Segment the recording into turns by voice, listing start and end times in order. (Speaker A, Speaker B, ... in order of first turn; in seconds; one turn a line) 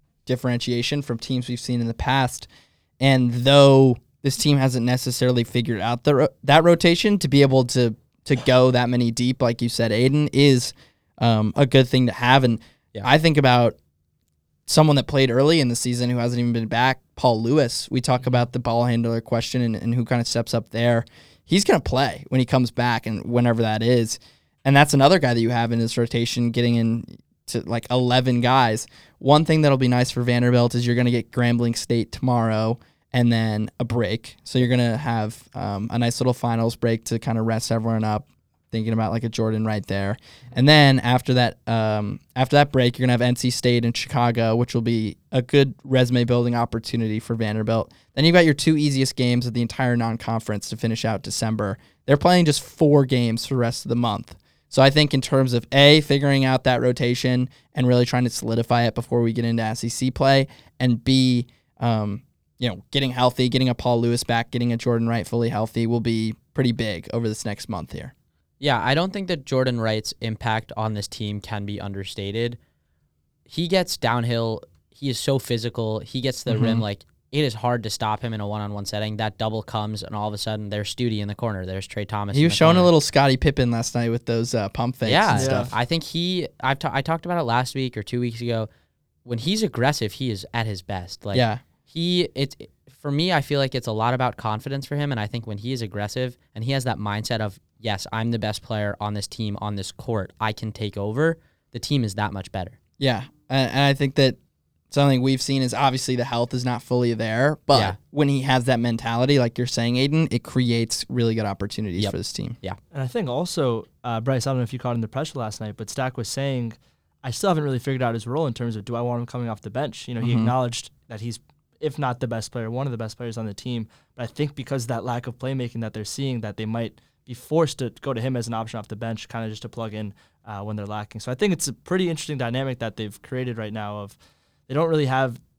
Speaker A: 0.3-2.5
Speaker A: 3.0-13.8
Speaker A: 14.7-68.1
Speaker B: 68.6-72.6
Speaker B: 73.5-82.9
Speaker A: 76.5-76.8
Speaker A: 82.3-85.7
Speaker B: 85.0-88.7
Speaker C: 85.4-85.7
Speaker B: 89.2-102.8
Speaker A: 91.3-91.6
Speaker A: 103.0-104.4
Speaker A: 104.9-112.6
Speaker B: 107.7-108.0
Speaker B: 112.0-112.8
Speaker C: 112.9-134.2
Speaker A: 120.2-120.5
Speaker C: 134.7-135.4